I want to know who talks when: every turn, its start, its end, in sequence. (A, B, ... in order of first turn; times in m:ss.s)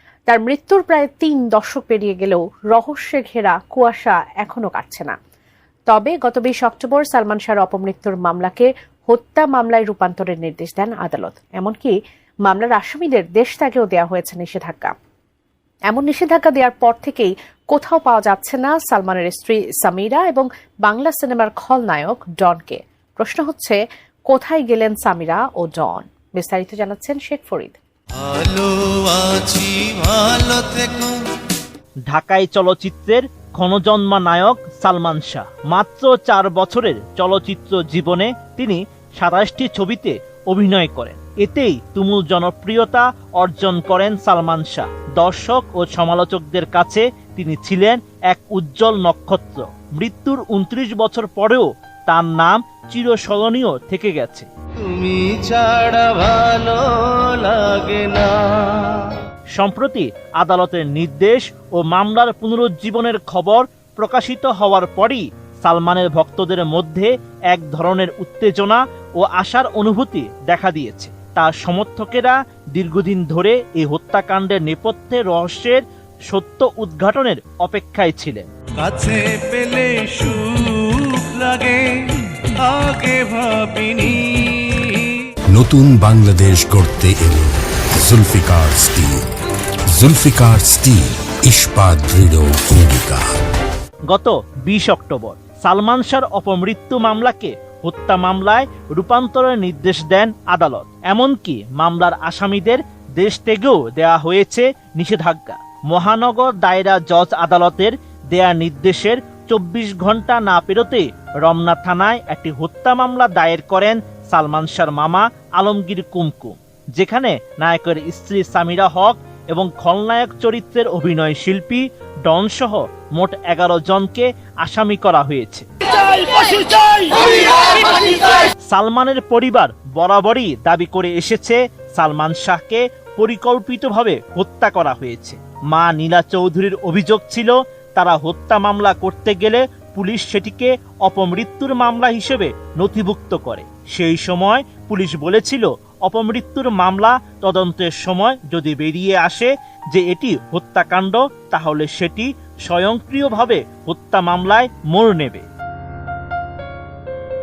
0:00.3-0:05.2 A
0:05.9-0:11.9 A
0:12.4-0:14.9 A
0:15.9-0:23.8 A
0:24.3-0:27.8 A
0:28.2-0:31.2 B
0:32.1-0:54.5 C
0:54.9-0:59.2 B
0:59.6-1:18.5 C
1:18.8-1:21.9 B
1:22.4-1:25.2 B
1:25.5-1:29.2 D
1:29.9-1:33.3 D
1:34.1-2:35.4 C